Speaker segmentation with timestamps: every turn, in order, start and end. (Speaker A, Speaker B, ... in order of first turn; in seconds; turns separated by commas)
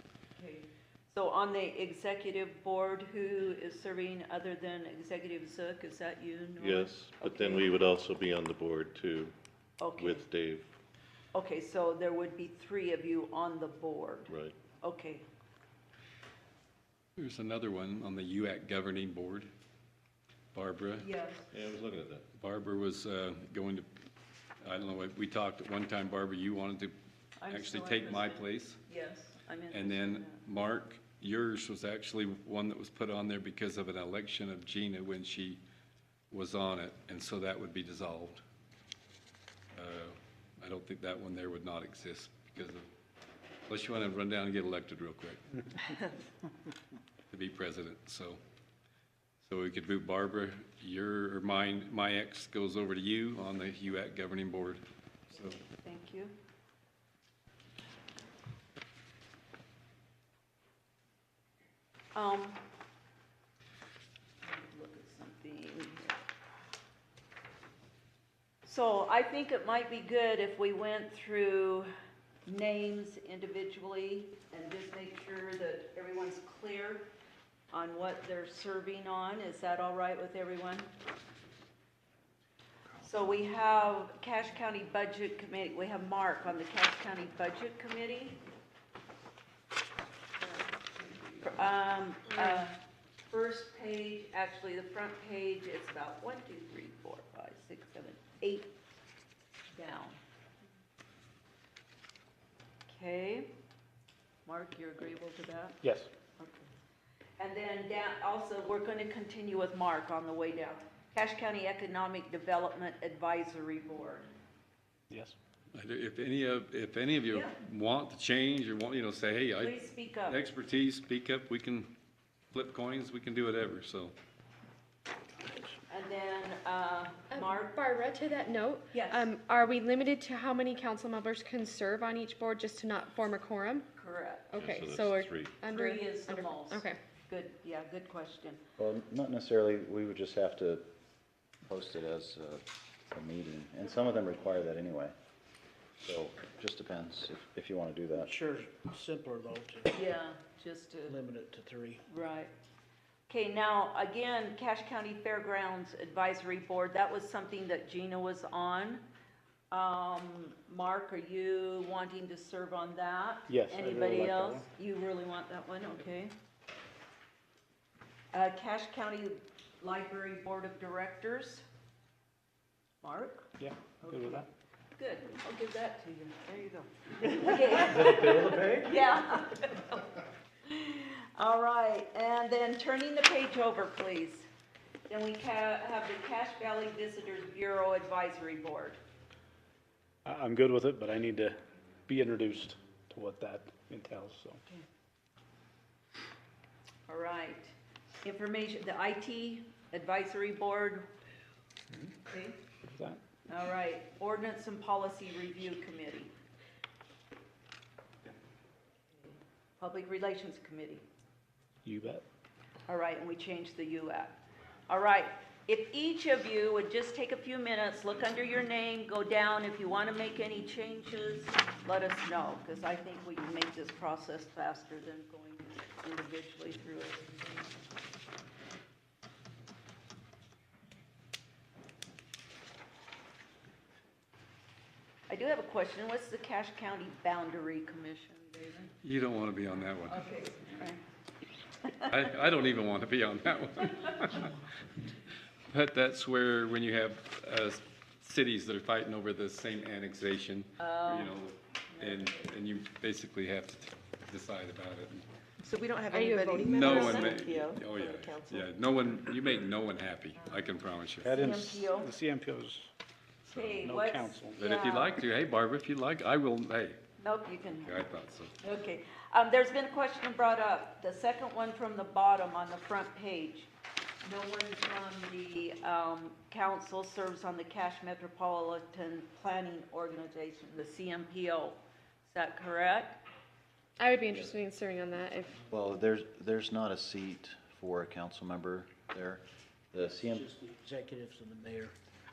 Speaker A: 0.4-7.7, Speaker B: 6.6-9.3, Speaker A: 9.8-10.2, Speaker B: 10.0-10.7, Speaker A: 11.3-15.3, Speaker B: 14.3-14.6, Speaker C: 17.2-19.5, Speaker C: 20.5-21.1, Speaker A: 21.0-21.5, Speaker B: 21.5-22.2, Speaker C: 22.4-23.9, Speaker C: 24.6-26.9, Speaker A: 27.4-30.4, Speaker C: 27.5-28.8, Speaker C: 29.7-35.6, Speaker C: 36.3-38.4, Speaker C: 39.8-42.9, Speaker C: 43.7-45.4, Speaker C: 47.3-48.4, Speaker C: 49.4-54.8, Speaker A: 55.4-56.3, Speaker A: 62.1-62.6, Speaker A: 64.4-66.2, Speaker A: 68.7-71.9, Speaker A: 72.5-77.1, Speaker A: 77.7-80.9, Speaker A: 83.0-88.4, Speaker A: 91.4-92.8, Speaker A: 93.3-98.8, Speaker A: 99.7-100.2, Speaker A: 102.9-103.5, Speaker A: 104.5-105.8, Speaker D: 105.8-106.1, Speaker A: 106.4-106.7, Speaker A: 107.4-114.3, Speaker D: 115.1-115.4, Speaker C: 115.7-121.9, Speaker A: 117.3-117.5, Speaker A: 119.6-120.4, Speaker C: 122.5-124.1, Speaker A: 125.9-127.9, Speaker E: 127.3-133.9, Speaker A: 128.9-129.3, Speaker A: 133.9-134.6, Speaker E: 134.5-137.0, Speaker B: 134.5-135.6, Speaker A: 135.7-138.6, Speaker F: 138.8-140.8, Speaker F: 141.7-145.1, Speaker F: 146.0-148.3, Speaker G: 148.2-149.9, Speaker A: 149.9-151.2, Speaker G: 151.1-152.0, Speaker A: 152.1-152.5, Speaker A: 153.3-159.0, Speaker A: 159.7-166.3, Speaker D: 163.5-164.7, Speaker A: 168.3-171.7, Speaker A: 173.0-173.5, Speaker D: 173.6-174.5, Speaker A: 174.0-174.4, Speaker A: 175.0-180.1, Speaker A: 180.7-184.5, Speaker A: 185.1-189.0, Speaker D: 190.2-191.6, Speaker D: 192.1-194.6, Speaker A: 197.1-201.1, Speaker A: 202.3-202.6, Speaker D: 202.9-203.2, Speaker A: 203.5-206.3, Speaker A: 209.2-211.0, Speaker D: 211.8-212.2, Speaker A: 212.9-227.8, Speaker A: 235.3-238.9, Speaker C: 239.0-240.2, Speaker A: 240.1-241.0, Speaker C: 242.1-244.6, Speaker C: 245.7-255.3, Speaker A: 250.8-251.3, Speaker A: 252.0-252.5, Speaker H: 255.6-258.7, Speaker E: 256.1-256.9, Speaker C: 256.6-261.4, Speaker D: 261.2-262.9, Speaker A: 261.3-262.1, Speaker D: 263.5-264.6, Speaker A: 263.5-265.1, Speaker C: 264.6-267.0, Speaker A: 267.2-268.0, Speaker C: 267.8-268.6, Speaker A: 268.6-273.7, Speaker A: 274.2-283.2, Speaker E: 284.0-285.6, Speaker F: 285.7-289.4, Speaker F: 289.9-290.5, Speaker G: 290.0-291.9